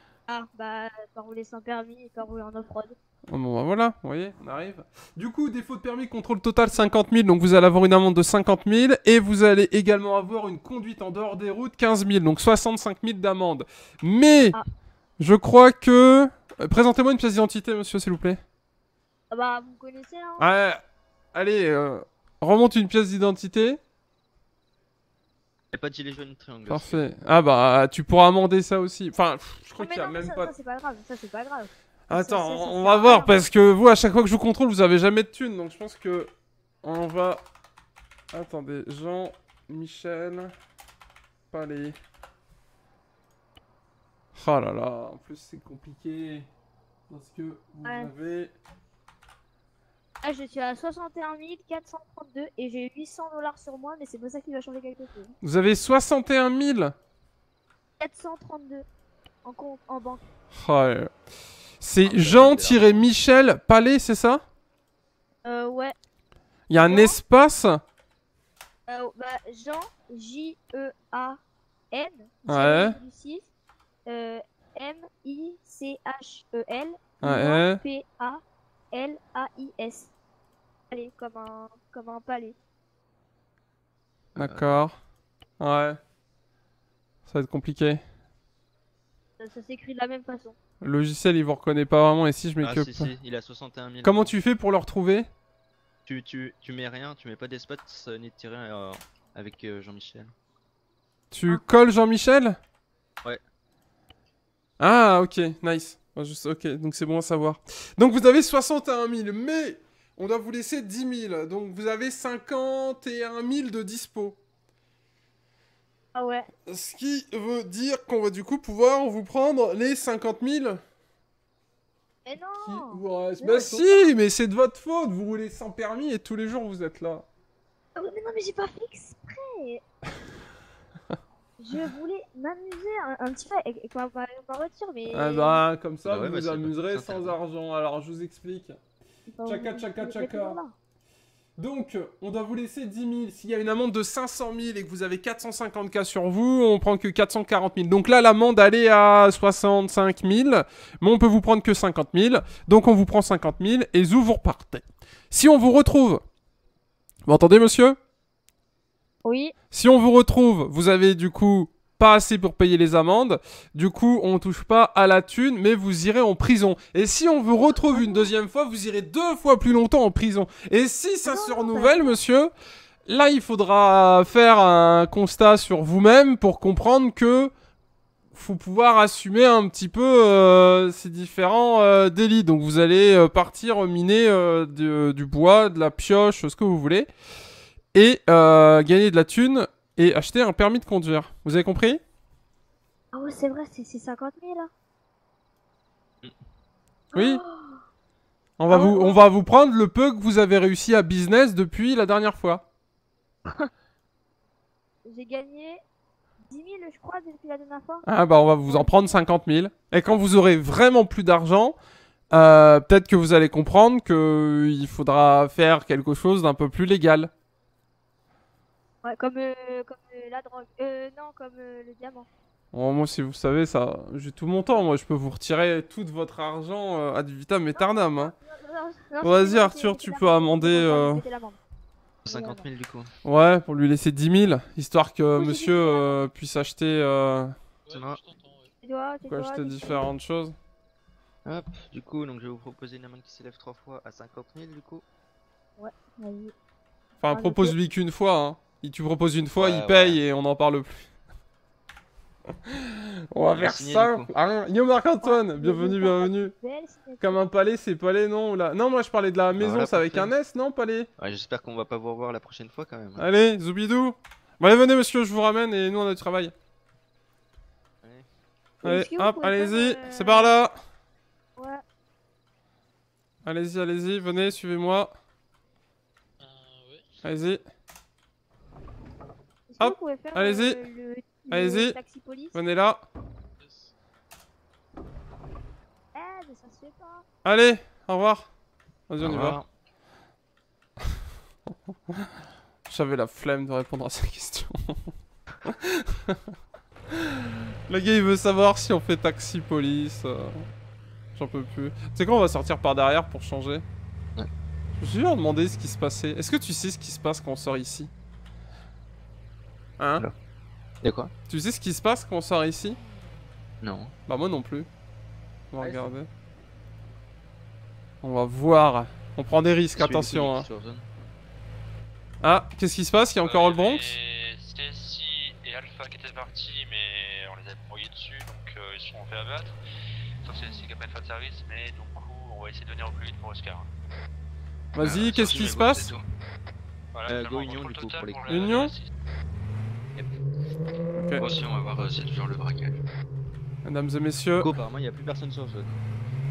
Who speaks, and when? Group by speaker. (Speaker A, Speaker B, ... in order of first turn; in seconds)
Speaker A: 0.3-3.0, 19.3-20.5, 29.8-33.5, 47.8-48.1, 50.2-55.3, 58.0-58.9, 59.5-60.2, 65.4-66.0, 66.8-67.2, 68.9-71.4, 71.9-73.5, 74.1-80.1, 80.9-82.6, 89.4-90.6, 116.2-116.5, 122.2-124.1, 128.0-129.8, 131.6-135.6, 139.3-140.7, 159.2-159.5, 167.8-168.3, 171.3-172.2, 193.1-194.7, 197.1-197.8, 198.7-199.3, 205.1-205.8, 206.5-208.1, 208.7-209.3, 219.0-222.3, 227.8-231.6, 232.3-232.6, 235.3-236.2, 238.8-240.1, 245.8-246.5, 247.3-247.7, 255.2-257.5, 268.8-270.5, 271.6-271.8, 279.7-282.6, 286.1-287.2
Speaker B: 3.3-14.6, 15.2-18.4, 20.4-20.8, 21.3-23.8, 26.7-30.5, 32.1-36.3, 36.8-37.4, 38.3-40.5, 41.5-42.0, 44.4-46.5, 47.1-48.5, 55.4-56.9, 60.5-61.1, 61.8-64.4, 66.7-67.8, 72.5-73.0, 77.2-77.8, 84.4-85.0, 85.6-86.0, 87.3-88.0, 90.8-93.1, 94.0-95.3, 101.3-102.6, 104.8-114.4, 116.7-120.8, 122.6-127.2, 135.1-138.8, 139.5-140.6, 141.6-156.2, 157.3-158.0, 159.7-172.5, 173.1-177.5, 178.3-187.1, 187.9-192.0, 197.2-197.4, 198.6-202.6, 208.1-211.8, 212.3-217.3, 222.7-228.3, 229.2-231.2, 233.2-237.6, 239.3-240.6, 247.2-251.1, 253.3-256.5, 257.2-261.1, 263.2-266.5, 268.8-270.8, 273.4-275.1, 277.2-277.6, 279.8-280.8, 281.5-282.0, 282.5-283.0, 287.4-288.5, 289.1-289.6, 292.9-295.0, 295.7-296.4, 297.9-300.6, 301.4-303.9, 305.0-308.1, 310.0-310.2, 311.5-313.0, 314.3-314.9, 315.7-316.3, 318.2-320.7, 322.4-324.2, 334.9-336.1, 338.5-338.9, 341.2-341.6, 343.8-344.7
Speaker C: 25.7-27.0, 62.0-63.0, 84.3-84.8, 92.6-94.3, 96.1-100.3, 136.1-137.4, 232.2-233.1, 237.9-238.2, 241.4-245.1, 249.6-250.2, 253.5-254.3, 259.5-260.3, 261.2-263.3, 289.2-289.7, 311.0-311.3, 313.8-314.1, 319.9-321.1, 335.0-336.2, 337.3-338.5, 341.4-343.0, 344.6-346.0
Speaker D: 237.8-238.7, 276.4-277.2, 283.6-283.9
Speaker E: 323.4-329.8, 330.4-333.9, 337.2-339.1